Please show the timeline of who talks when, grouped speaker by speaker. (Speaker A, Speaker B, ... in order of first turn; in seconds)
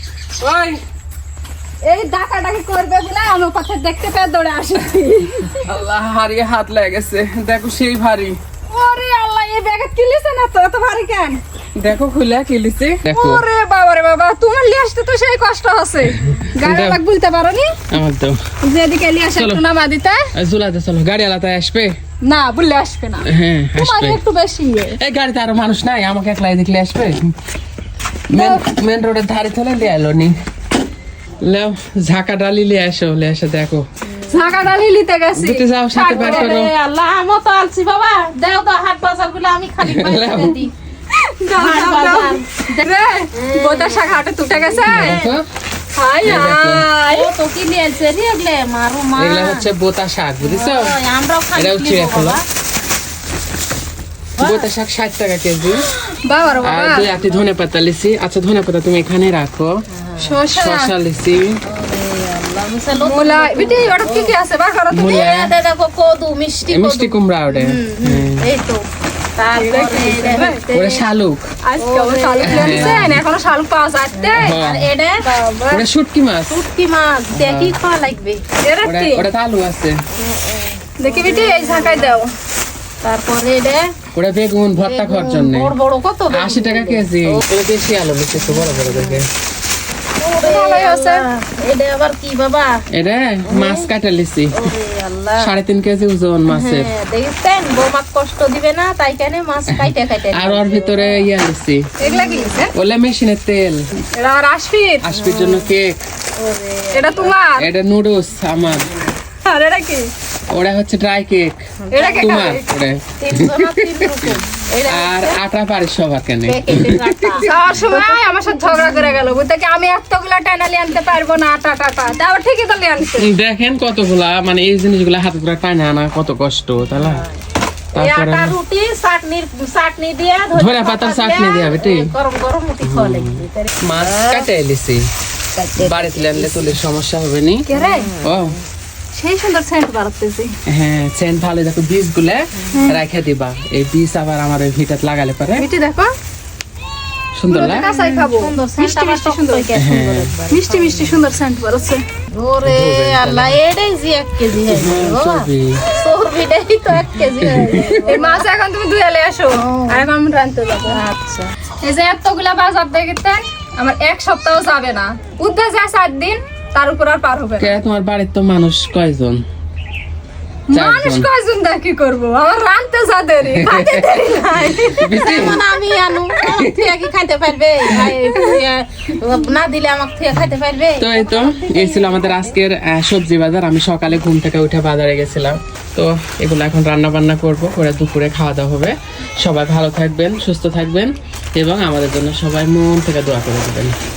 Speaker A: 0.4-0.8, 5.5-8.4, 11.7-13.4, 16.3-17.0, 17.9-18.4, 19.3-19.6, 20.3-21.9, 23.2-24.2, 24.9-27.3, 28.3-30.4, 31.4-33.9, 35.3-36.7, 39.8-40.6, 44.8-45.5, 46.2-46.9, 49.2-51.0, 51.5-52.4, 54.4-55.9, 56.6-59.8, 60.5-61.6, 64.9-65.5, 66.7-68.5, 70.7-71.5, 72.4-73.2, 74.3-74.9, 75.7-76.6, 77.3-77.8, 78.8-80.0, 84.1-85.7, 86.3-89.3, 92.9-94.7, 95.4-96.9, 99.7-101.9, 102.7-103.9, 105.0-106.0, 107.6-108.9, 110.5-111.6, 112.2-114.0, 114.9-117.5, 123.2-127.2, 127.9-128.6, 130.5-132.1, 132.8-135.1, 135.8-137.7, 138.2-138.6, 140.7-145.7, 147.3-147.8, 149.7-150.3, 152.6-153.6, 154.7-155.8, 157.4-158.0, 167.6-169.4, 170.7-171.3, 173.5-174.2, 174.8-175.6, 176.4-176.7, 181.0-193.9
Speaker B: 1.8-5.7, 8.7-11.4, 13.1-17.8, 18.6-20.3, 22.2-25.0, 28.3-28.6, 34.3-36.6, 41.1-45.2, 46.0-47.3, 56.2-57.1, 60.2-60.9, 63.0-65.3, 69.5-70.6, 71.6-74.6, 75.2-75.8, 78.6-79.2, 81.0-82.3, 90.4-91.2, 102.0-102.7, 104.1-105.0, 106.9-107.7, 109.4-110.1, 111.9-112.6, 117.4-123.3, 137.7-138.1, 139.1-140.6, 142.7-143.0, 145.6-146.1, 147.5-149.7, 150.5-152.0, 158.1-161.0, 161.8-167.8, 170.7-175.6, 178.3-178.6
Speaker C: 35.9-40.7, 41.5-42.6, 43.3-45.3, 47.1-49.7, 50.4-52.4, 54.4-54.7, 59.9-60.4, 61.6-64.3, 65.0-71.0, 71.8-73.1, 74.3-75.2, 76.5-78.4, 80.2-82.1, 83.0-83.9, 84.8-87.4, 88.5-89.2, 90.2-92.8, 93.5-93.9, 94.5-95.5, 96.5-101.3, 102.0-102.6, 105.1-105.7, 106.4-107.3, 111.8-112.6, 113.2-115.4, 116.4-119.2, 127.9-134.5, 135.5-136.7, 137.8-138.2, 147.6-151.2, 152.3-158.5, 159.5-160.1, 160.9-161.5, 174.3-182.6